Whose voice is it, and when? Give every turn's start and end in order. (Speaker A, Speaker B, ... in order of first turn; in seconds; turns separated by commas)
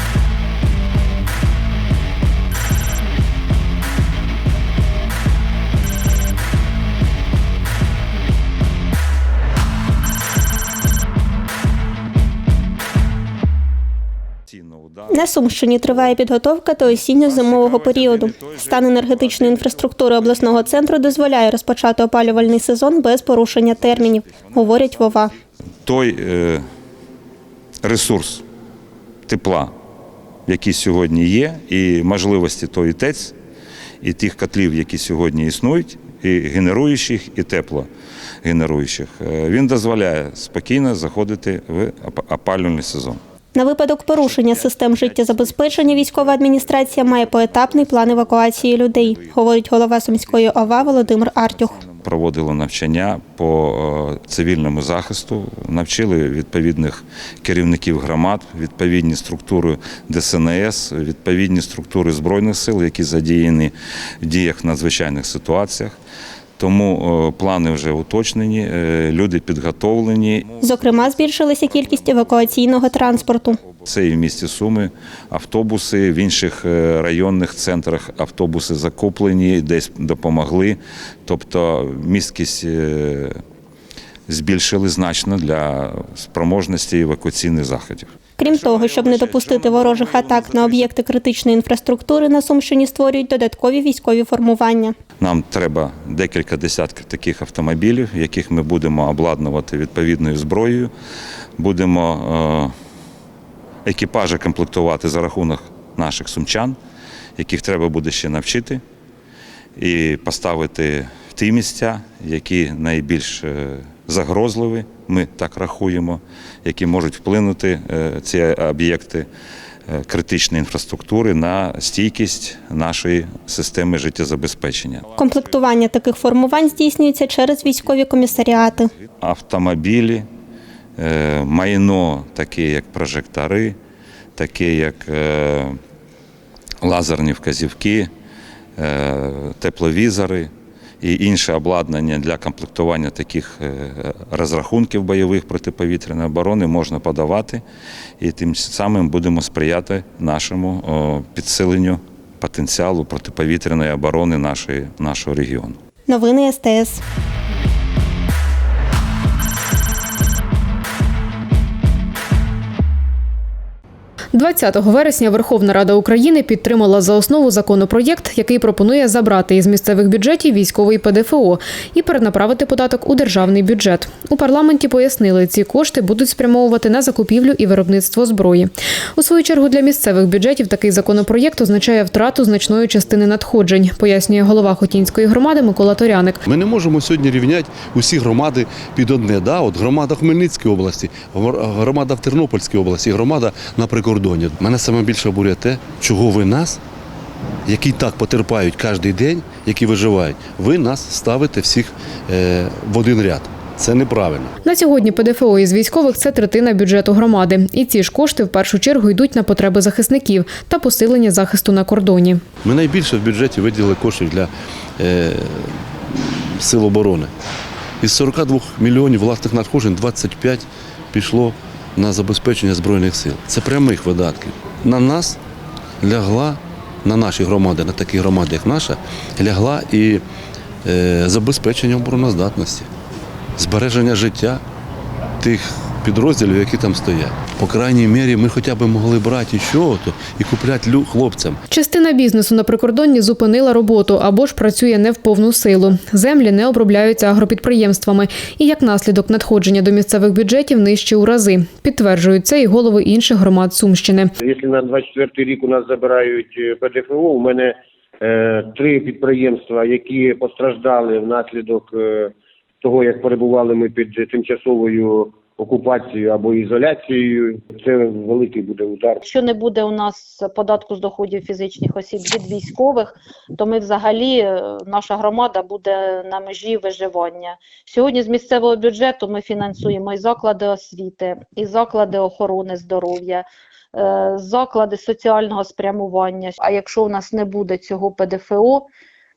Speaker A: 14.5-16.2, Speaker B: 15.1-25.3, Speaker A: 16.8-21.6, Speaker A: 22.2-25.3, Speaker A: 25.9-26.6, Speaker A: 27.8-28.4, Speaker A: 29.3-29.7, Speaker A: 30.5-33.4, Speaker A: 34.0-37.9, Speaker A: 38.4-43.2, Speaker B: 43.5-51.8, Speaker A: 44.1-66.0, Speaker A: 66.6-83.3, Speaker B: 70.6-73.6, Speaker A: 84.3-90.9, Speaker B: 88.4-95.0, Speaker A: 95.2-100.9, Speaker A: 101.6-102.7, Speaker A: 103.8-106.8, Speaker A: 107.4-108.8, Speaker A: 109.8-119.3, Speaker A: 119.9-130.3, Speaker B: 125.2-128.9, Speaker A: 131.0-133.8, Speaker A: 134.3-135.8, Speaker A: 136.8-138.1, Speaker A: 138.8-147.6, Speaker A: 148.2-155.8, Speaker B: 156.1-157.0, Speaker C: 164.3-186.4, Speaker D: 186.5-196.8, Speaker D: 197.7-204.5, Speaker C: 204.6-212.4, Speaker D: 212.6-217.3, Speaker D: 218.0-225.4, Speaker D: 226.0-230.2, Speaker D: 230.8-232.9, Speaker D: 233.6-234.6, Speaker D: 235.4-241.6, Speaker C: 241.7-254.3, Speaker E: 254.4-262.3, Speaker E: 262.8-269.2, Speaker F: 269.2-288.9